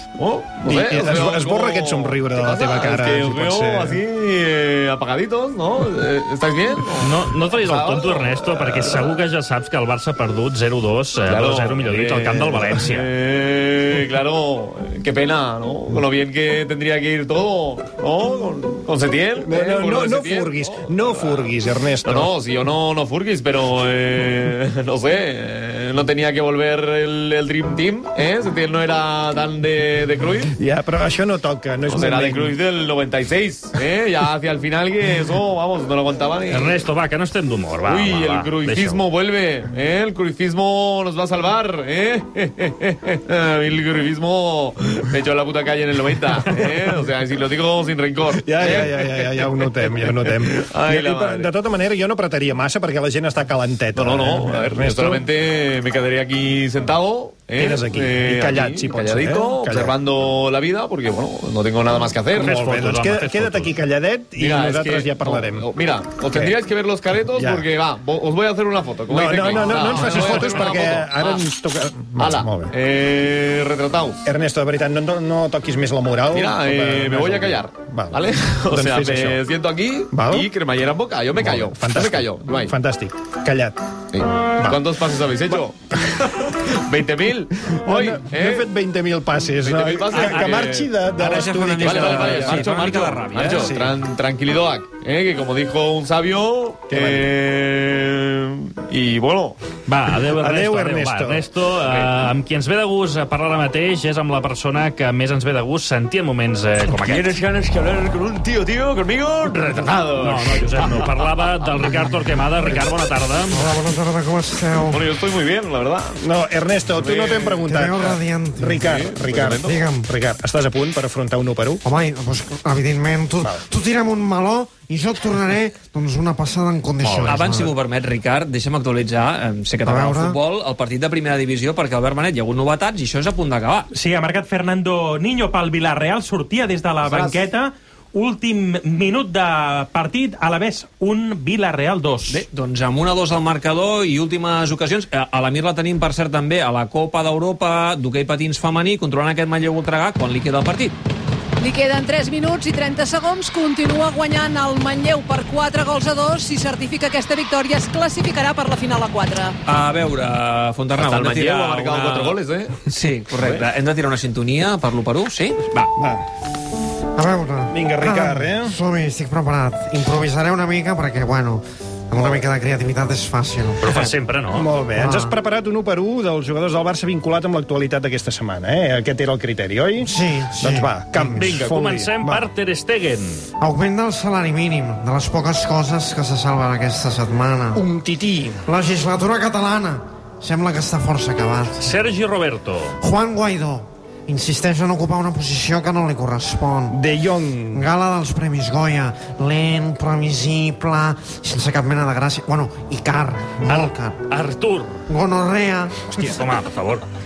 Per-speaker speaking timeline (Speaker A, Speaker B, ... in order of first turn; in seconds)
Speaker A: 0.2-9.2, 11.3-21.5, 22.1-30.6, 31.9-36.8, 37.8-51.5, 54.0-62.6, 64.4-71.4, 72.2-74.2, 76.3-82.7, 84.1-88.7, 89.6-90.9, 91.8-99.6, 101.9-102.1, 107.0-111.3, 114.9-116.2, 116.9-117.7, 118.8-119.8, 161.0-162.8, 163.4-163.7
Speaker B: 0.6-4.0, 12.3-12.6, 19.4-22.3, 30.6-32.6, 48.4-55.3, 57.6-60.0, 62.3-65.7, 66.3-66.6, 67.3-67.7, 69.1-72.7, 74.2-79.4, 80.1-80.5, 81.4-83.8, 84.6-85.0, 85.5-86.2, 87.8-92.8, 93.4-94.0, 96.9-97.3, 100.4-101.5, 116.2-121.8, 166.0-166.2, 167.7-168.8, 174.6-182.4, 187.7-188.6, 196.9-197.8
Speaker C: 7.0-13.1, 36.5-39.0, 62.4-63.7, 70.0-70.5, 99.9-107.4, 110.2-113.8, 173.8-174.7, 181.2-183.4, 191.8-192.9, 203.7-205.0, 206.1-207.1
Speaker D: 90.1-90.5, 91.2-93.8, 127.2-133.9, 142.3-151.0, 159.7-165.9
Speaker E: 113.5-115.1, 117.7-118.9, 119.6-120.1, 121.8-127.7, 129.8-130.4, 167.2-174.1, 175.0-175.3, 180.0-181.4, 183.6-187.8, 188.7-191.9, 193.0-197.0, 197.7-204.2, 205.1-205.9
Speaker F: 133.9-142.4
Speaker G: 151.6-159.6